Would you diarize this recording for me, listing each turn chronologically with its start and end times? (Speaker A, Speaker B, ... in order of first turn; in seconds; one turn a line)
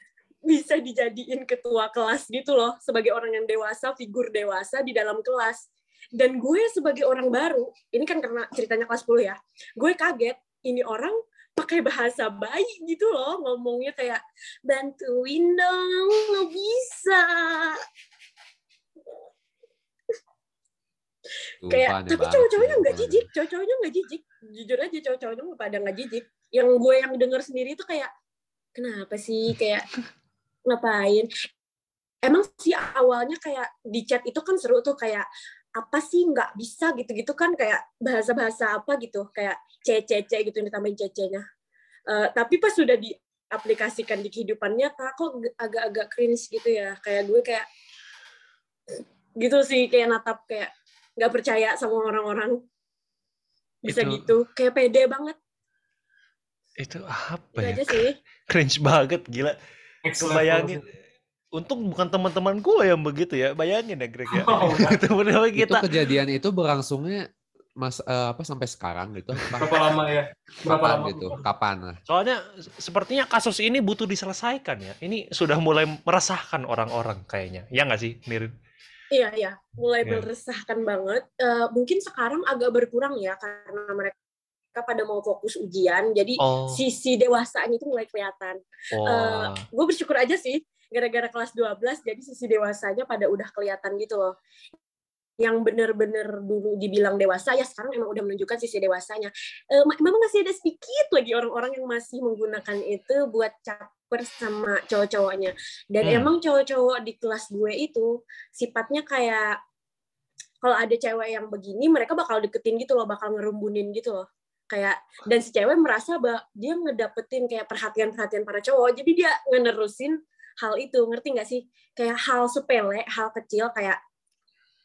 Speaker A: 0.5-17.8
Speaker B: 21.6-23.2
Speaker A: 21.7-28.1
Speaker A: 28.8-29.9
Speaker A: 30.7-31.3
Speaker A: 32.2-41.5
Speaker A: 42.1-47.7
Speaker A: 49.4-52.6
Speaker A: 53.9-55.4
Speaker C: 53.9-54.3
Speaker C: 56.8-59.6
Speaker A: 57.6-58.2
Speaker D: 60.0-60.8
Speaker C: 60.2-60.8
Speaker C: 61.6-65.8
Speaker D: 64.3-65.0
Speaker B: 65.6-67.3
Speaker B: 67.8-69.8
Speaker D: 69.6-71.4
Speaker B: 70.6-72.0
Speaker C: 72.1-78.5
Speaker A: 79.1-84.2
Speaker A: 84.8-94.3
Speaker C: 86.4-86.8
Speaker C: 88.9-89.6
Speaker A: 95.4-109.6
Speaker C: 106.0-106.3
Speaker A: 110.6-124.0